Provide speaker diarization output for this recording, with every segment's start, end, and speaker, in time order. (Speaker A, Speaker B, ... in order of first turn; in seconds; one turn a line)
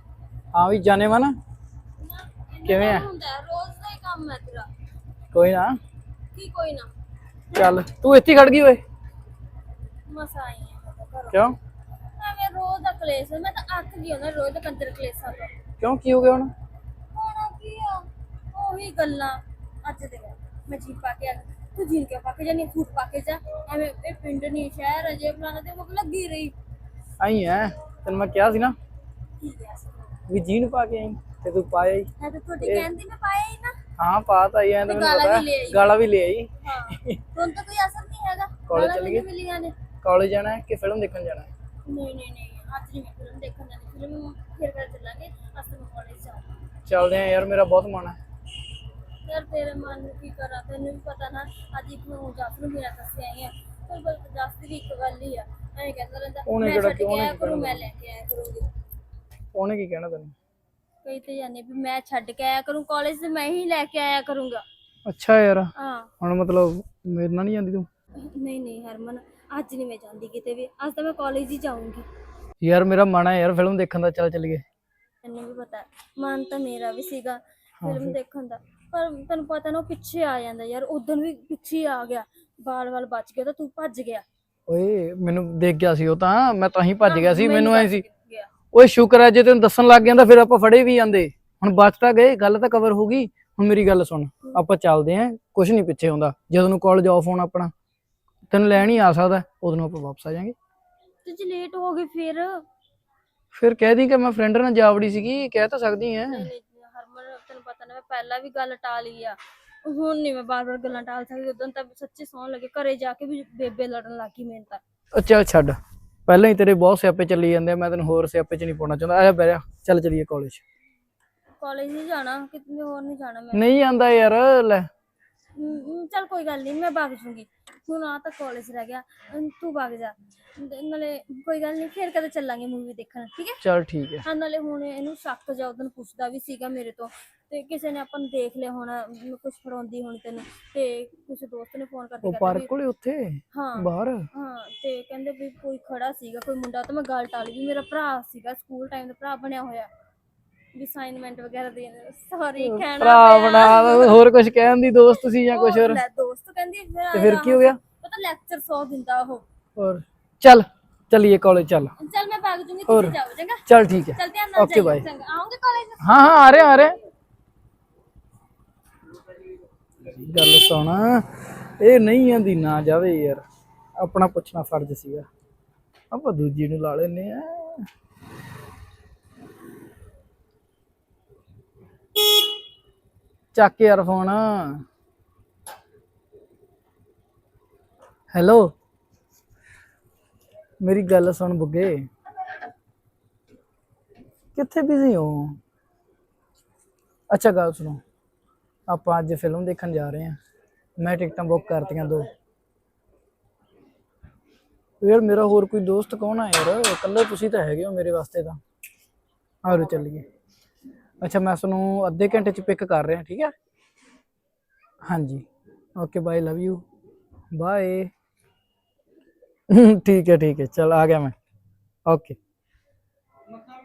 Speaker A: 0.5-1.4
Speaker B: 2.0-4.7
Speaker A: 2.6-3.0
Speaker A: 5.3-5.8
Speaker B: 6.3-6.9
Speaker A: 7.5-8.8
Speaker B: 10.1-11.4
Speaker A: 11.3-11.6
Speaker B: 12.2-15.5
Speaker A: 15.8-16.5
Speaker B: 17.1-26.5
Speaker A: 27.2-28.8
Speaker B: 29.4-30.1
Speaker A: 30.3-32.1
Speaker B: 32.2-33.7
Speaker A: 32.6-32.9
Speaker A: 34.0-37.2
Speaker B: 34.8-36.0
Speaker B: 36.6-39.7
Speaker A: 38.7-39.2
Speaker A: 40.0-41.5
Speaker B: 41.8-46.5
Speaker A: 46.9-48.2
Speaker B: 49.2-58.7
Speaker A: 56.5-57.8
Speaker A: 59.5-60.3
Speaker B: 61.0-64.6
Speaker A: 65.0-67.9
Speaker B: 65.8-66.1
Speaker B: 68.2-72.0
Speaker A: 72.6-74.6
Speaker B: 75.2-84.2
Speaker A: 77.8-78.1
Speaker A: 84.7-88.0
Speaker B: 87.0-88.5
Speaker A: 88.7-97.7
Speaker A: 98.5-100.5
Speaker B: 101.2-102.6
Speaker A: 103.5-106.5
Speaker B: 106.3-114.8
Speaker A: 115.1-120.6
Speaker B: 121.6-123.7
Speaker A: 123.5-124.9
Speaker B: 125.5-133.6
Speaker A: 133.6-134.2
Speaker B: 134.2-142.7
Speaker A: 142.2-144.3
Speaker B: 143.5-149.9
Speaker B: 150.7-154.2
Speaker A: 152.6-156.0
Speaker B: 155.5-159.4
Speaker A: 157.1-157.8
Speaker A: 159.8-161.9
Speaker B: 162.0-163.6
Speaker A: 162.9-163.1
Speaker A: 163.7-165.0
Speaker B: 164.1-167.0
Speaker A: 166.0-166.9
Speaker A: 170.1-173.4
Speaker A: 174.0-175.3
Speaker A: 176.1-177.9
Speaker A: 183.5-184.8
Speaker A: 188.3-188.7
Speaker A: 190.8-192.1
Speaker A: 194.5-195.6
Speaker A: 197.3-198.0
Speaker A: 198.9-200.4
Speaker A: 201.0-202.3
Speaker A: 205.0-208.6
Speaker A: 209.6-210.2
Speaker A: 211.2-213.5
Speaker A: 215.1-216.8
Speaker A: 217.5-218.1
Speaker A: 219.7-221.3
Speaker A: 222.1-222.4